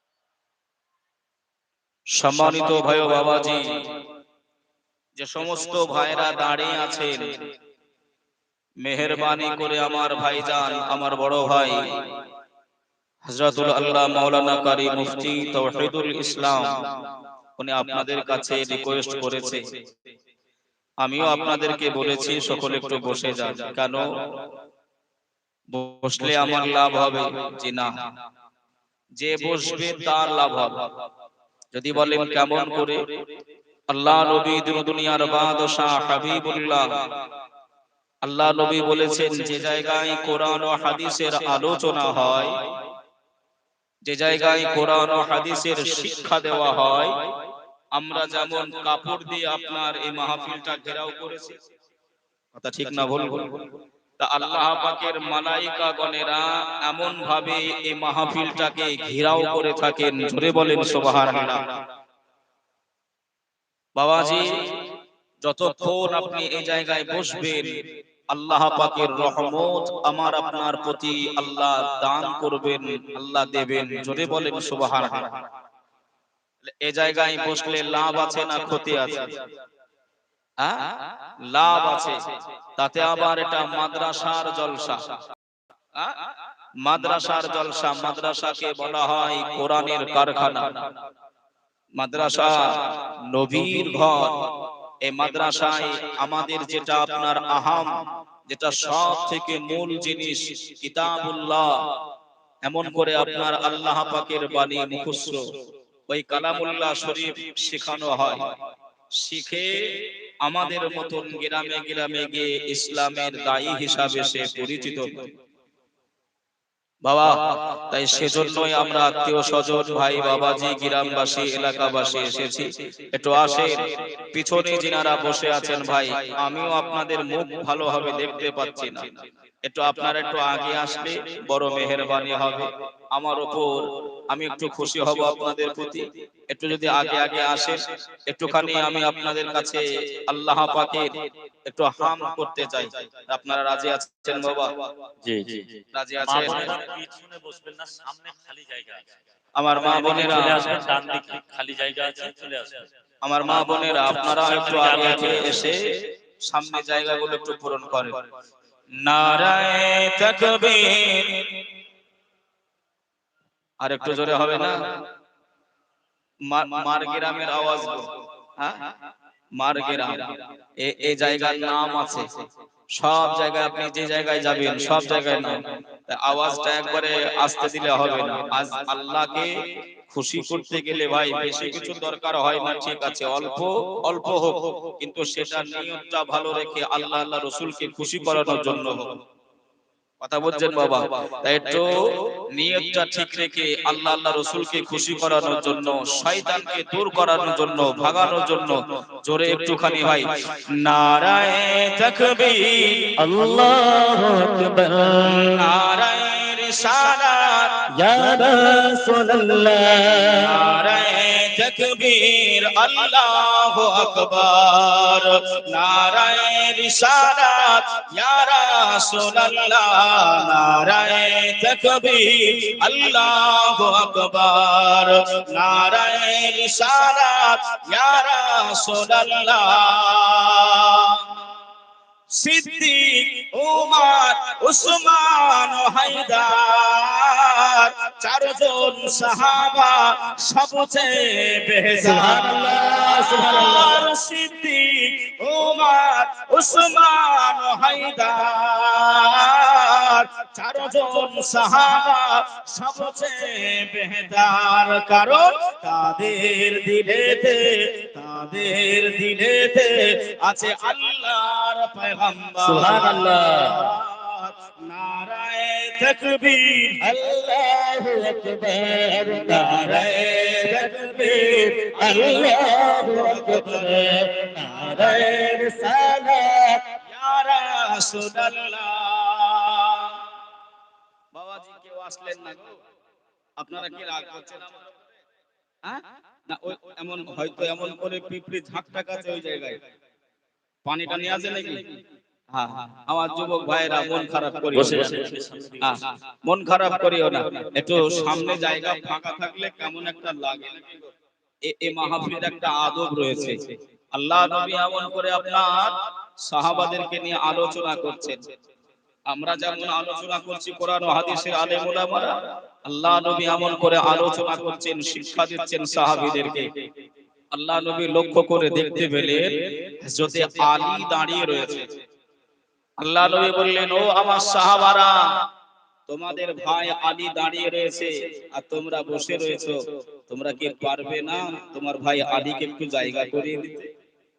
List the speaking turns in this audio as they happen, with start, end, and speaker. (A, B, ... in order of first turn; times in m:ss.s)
0:02.1-0:03.7 A
0:05.2-0:07.3 A
0:08.8-0:12.0 A
0:13.2-0:17.0 A
0:17.6-0:19.6 A
0:21.0-0:24.4 A
0:25.7-0:28.0 A
0:29.2-0:30.9 A
0:31.7-0:33.0 A
0:33.9-0:36.9 A
0:38.2-0:42.5 A
0:44.0-0:47.2 A
0:47.9-0:51.6 A
0:52.5-0:53.7 A
0:54.2-1:01.7 A
1:04.0-1:04.8 A
1:05.4-1:07.8 A
1:08.3-1:15.4 A
1:16.6-1:19.4 A
1:20.6-1:22.2 A
1:22.8-1:25.1 A
1:26.0-1:26.2 A
1:26.8-1:30.9 A
1:32.0-1:41.7 A
1:42.6-1:45.5 A
1:46.1-1:48.5 A
1:49.2-1:55.3 A
1:57.0-2:21.1 A
2:21.6-2:24.9 A
2:25.2-2:29.1 B
2:25.9-2:26.8 A
2:29.6-2:30.8 A
2:29.8-2:32.8 B
2:33.2-2:38.2 A
2:39.0-2:41.6 A
2:43.8-2:44.8 A
2:46.5-2:48.9 A
2:49.6-2:52.3 A
2:52.9-3:09.2 A
3:10.2-3:23.0 A
3:23.2-3:25.7 C
3:25.3-3:27.8 A
3:28.0-3:30.7 C
3:30.4-3:51.3 A
3:52.3-4:27.1 A
4:02.0-4:04.0 C
4:22.6-4:23.8 C
4:27.0-4:36.8 C
4:29.5-4:33.9 A
4:37.0-4:40.2 A
4:41.3-4:42.8 A
4:43.6-4:45.1 A
4:45.8-4:49.8 A
4:50.8-4:51.9 A
4:52.5-5:01.1 A
4:54.9-4:55.8 B
5:01.6-5:08.4 A
5:09.3-5:16.7 A
5:17.5-5:21.9 A
5:23.0-5:25.2 A
5:26.1-5:33.9 A